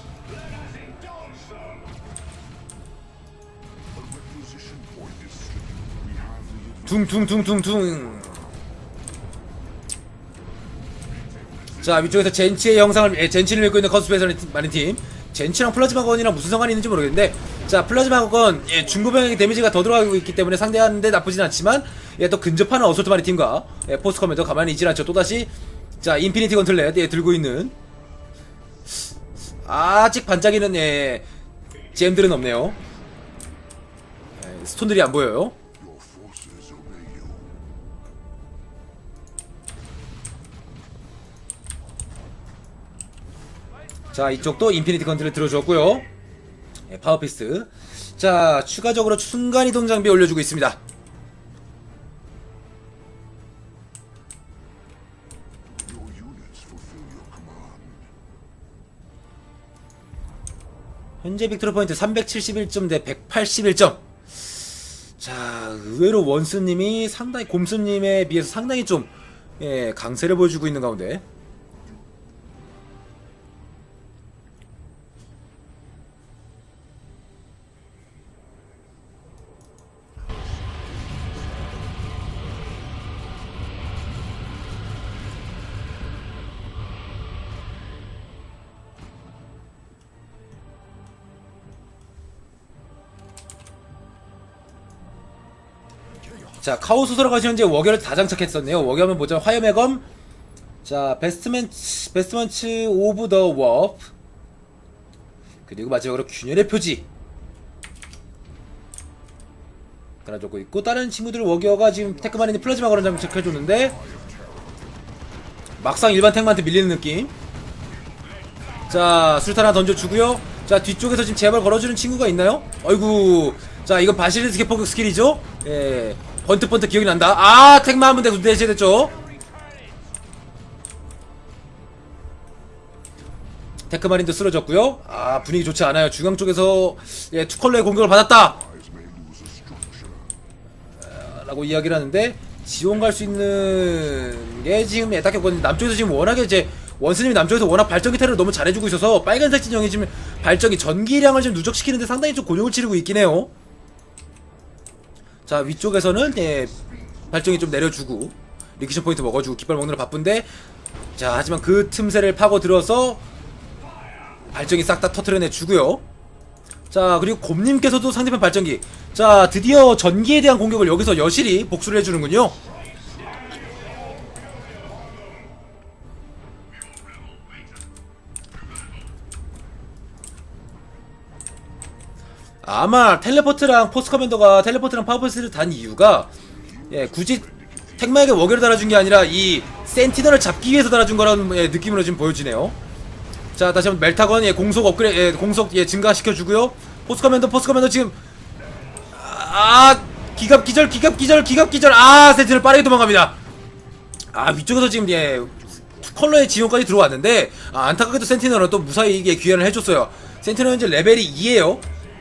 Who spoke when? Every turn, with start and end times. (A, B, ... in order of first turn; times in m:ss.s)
0:03.9-0:08.6 A
0:06.9-0:08.3 B
0:11.8-0:27.7 B
0:29.6-0:31.2 B
0:31.9-0:32.8 B
0:34.4-0:35.6 B
0:35.8-0:37.5 A
0:44.1-0:46.1 B
0:46.9-0:50.8 B
0:55.7-0:58.1 A
1:01.2-1:04.0 B
1:05.2-1:11.2 B
1:36.6-1:40.0 B
1:40.8-1:44.1 B
1:45.7-1:47.1 B
1:50.3-1:54.0 B
1:51.8-1:55.2 A
1:55.8-1:57.3 B
1:58.9-2:09.2 B
2:13.9-2:18.6 B
2:18.3-2:20.4 A
2:21.1-2:33.5 B
2:35.5-2:36.8 B
2:37.3-2:40.5 B
2:41.2-2:43.2 B
2:44.5-2:46.0 B
2:46.9-2:52.6 B
3:02.6-3:06.3 B
3:06.4-3:08.6 A
3:06.9-3:07.5 B
3:08.0-3:12.8 B
3:13.6-3:18.2 B
3:19.1-3:23.4 B
3:24.3-3:31.9 B
3:25.0-3:26.8 A